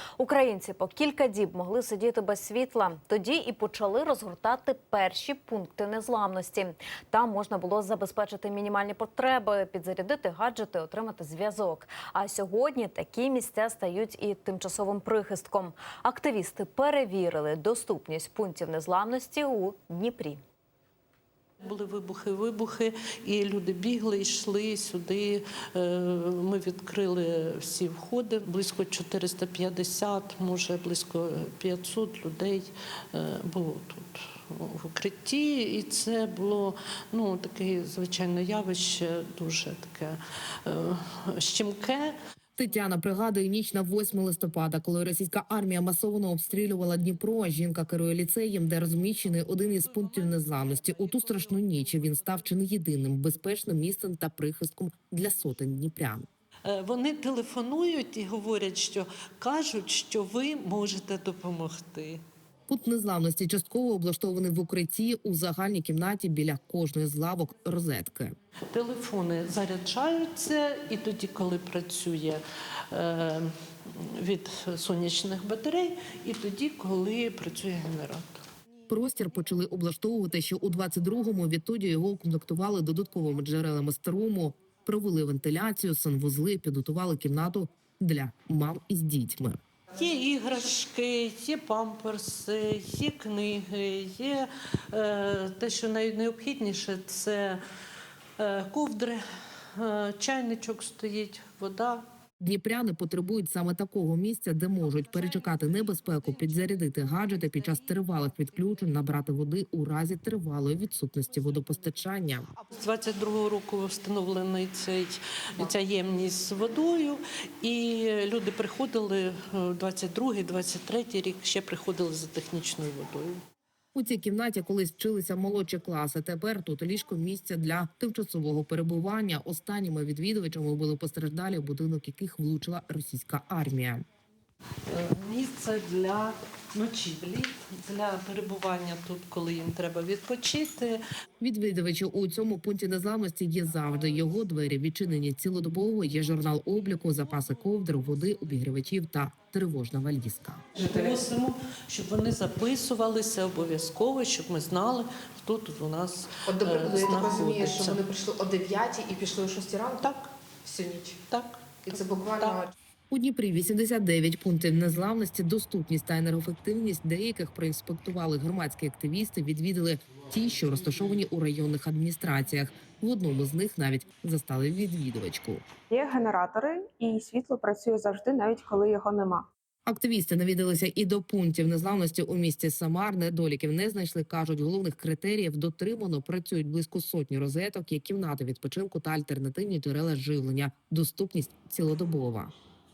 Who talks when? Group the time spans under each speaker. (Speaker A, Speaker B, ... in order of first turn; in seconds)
Speaker A: 0.2-20.4
Speaker B: 21.6-42.2, 56.7-62.2, 68.7-78.4, 89.9-97.6, 98.4-99.2, 99.8-102.0, 112.7-123.4, 134.9-141.0, 150.8-158.1, 161.3-162.7
Speaker C: 42.6-56.3, 62.7-68.3, 78.9-89.6, 102.4-112.5, 124.0-134.0, 141.4-150.7, 163.1-175.6, 179.9-192.5
Speaker D: 150.8-151.2, 156.5-161.2, 161.9-162.7
Speaker E: 175.9-179.5